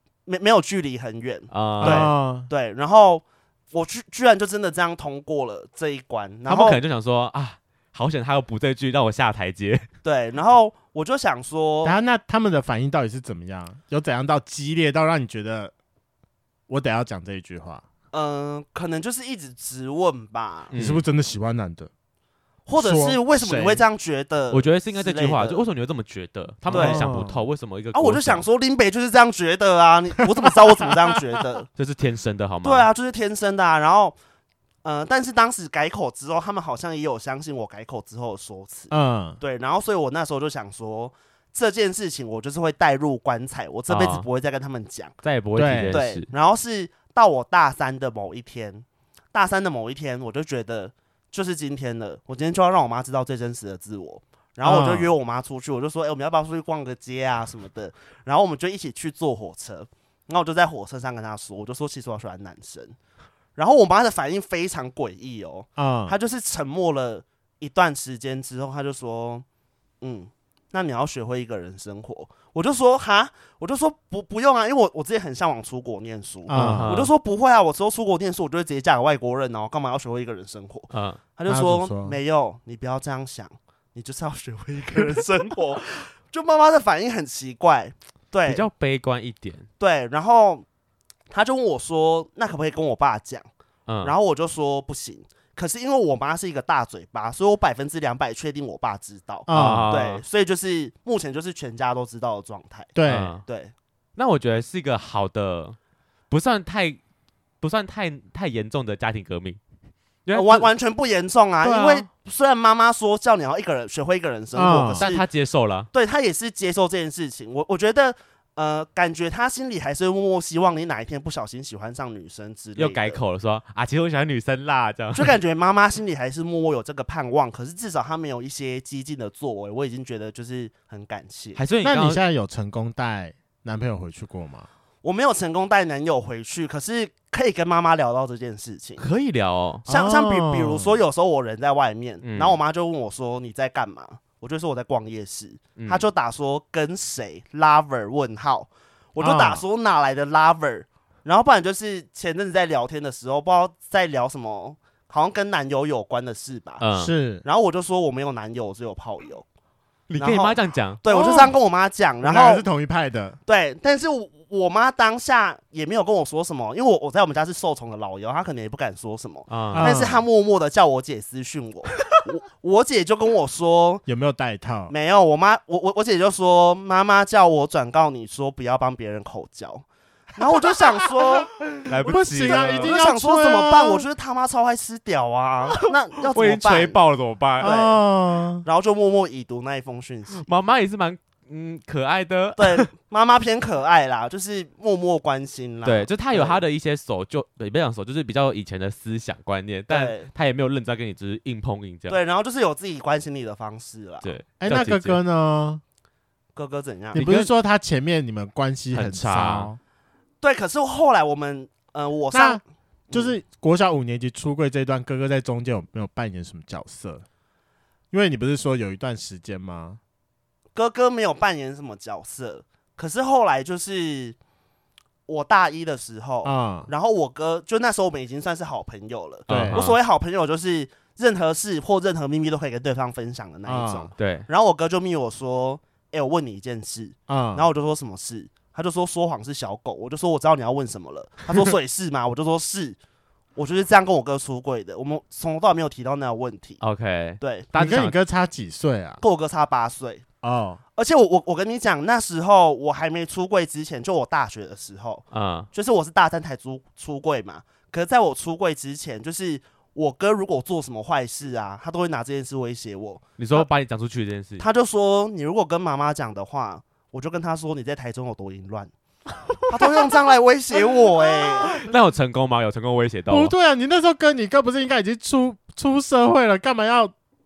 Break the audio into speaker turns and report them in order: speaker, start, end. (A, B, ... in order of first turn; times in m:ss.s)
0:00.3-0:06.8 A
0:01.5-0:02.1 B
0:01.8-0:02.5 C
0:06.5-0:09.9 B
0:10.0-0:12.0 A
0:11.8-0:15.7 C
0:16.7-0:17.8 C
0:18.1-0:20.7 A
0:20.7-0:21.0 B
0:20.8-0:21.9 C
0:22.7-0:25.6 A
0:22.8-0:23.8 C
0:24.5-0:28.4 B
0:26.7-0:27.0 A
0:26.7-0:27.4 C
0:27.9-0:31.7 A
0:31.8-0:32.9 B
0:32.6-0:34.2 A
0:34.8-0:45.2 A
0:38.9-0:39.4 C
0:43.9-0:44.3 B
0:45.2-0:46.3 B
0:45.6-0:46.0 C
0:45.9-1:03.0 A
0:54.6-0:55.1 C
1:03.6-1:09.4 A
1:05.8-1:06.2 C
1:10.0-1:28.7 A
1:16.5-1:16.9 C
1:16.5-1:17.1 B
1:20.9-1:21.2 B
1:21.5-1:22.2 C
1:28.5-1:29.7 B
1:29.8-1:30.6 A
1:31.3-1:33.5 A
1:33.9-1:34.1 B
1:34.0-1:42.9 A
1:39.5-1:39.9 C
1:39.5-1:40.2 B
1:43.0-1:43.3 C
1:43.1-1:43.4 B
1:43.4-1:43.7 A
1:44.2-1:45.8 B
1:46.3-1:47.0 B
1:47.6-1:49.6 B
1:50.3-1:50.7 B
1:50.4-1:55.3 A
1:51.6-1:52.1 B
1:54.6-1:55.0 C
1:55.0-1:55.9 B
1:55.9-2:03.2 A
2:02.8-2:05.4 B
2:05.1-2:11.6 A
2:11.6-2:12.2 B
2:11.8-2:14.7 C
2:15.0-2:19.0 A
2:19.0-2:19.8 B
2:19.8-2:20.9 C
2:19.9-2:36.8 A
2:22.2-2:22.6 B
2:25.8-2:26.0 B
2:29.2-2:29.6 C
2:36.8-2:37.1 B
2:36.9-2:37.4 C
2:37.4-2:39.5 A
2:40.1-2:41.0 B
2:40.2-2:42.6 A
2:41.1-2:41.5 C
2:42.2-2:43.4 C
2:43.5-2:54.0 A
2:49.5-2:49.9 B
2:49.7-2:50.2 C
2:54.1-2:54.9 C
2:54.9-3:01.5 A
3:01.8-3:03.0 B
3:02.0-3:04.0 C
3:02.0-3:07.0 A
3:06.3-3:07.7 B
3:07.6-3:08.0 A
3:07.6-3:08.6 C
3:08.6-3:10.5 A
3:10.3-3:12.9 B
3:12.6-3:16.6 A
3:15.8-3:22.2 B
3:19.9-3:20.3 A
3:22.1-3:24.3 A
3:24.2-3:25.2 B
3:24.6-3:25.8 C
3:26.6-3:27.2 A
3:27.1-3:27.5 B
3:27.1-3:29.8 C
3:28.9-3:29.7 B
3:30.4-3:33.4 A
3:32.3-3:37.2 C
3:38.1-3:40.0 C
3:40.8-3:44.4 A
3:45.3-4:03.0 A
3:46.4-3:46.9 C
3:49.5-3:50.0 B
3:49.5-3:49.8 C
3:53.7-3:54.1 C
3:54.2-3:54.5 B
3:57.3-3:57.7 C
4:03.6-4:06.8 A
4:06.8-4:08.2 B
4:07.4-4:07.7 A
4:07.8-4:09.2 C
4:09.2-4:10.2 A
4:10.4-4:10.8 C
4:11.0-4:23.6 A
4:15.3-4:15.7 B
4:23.4-4:24.6 B
4:24.6-4:28.9 A
4:29.7-4:31.8 A
4:31.8-4:33.5 B
4:33.3-4:37.1 C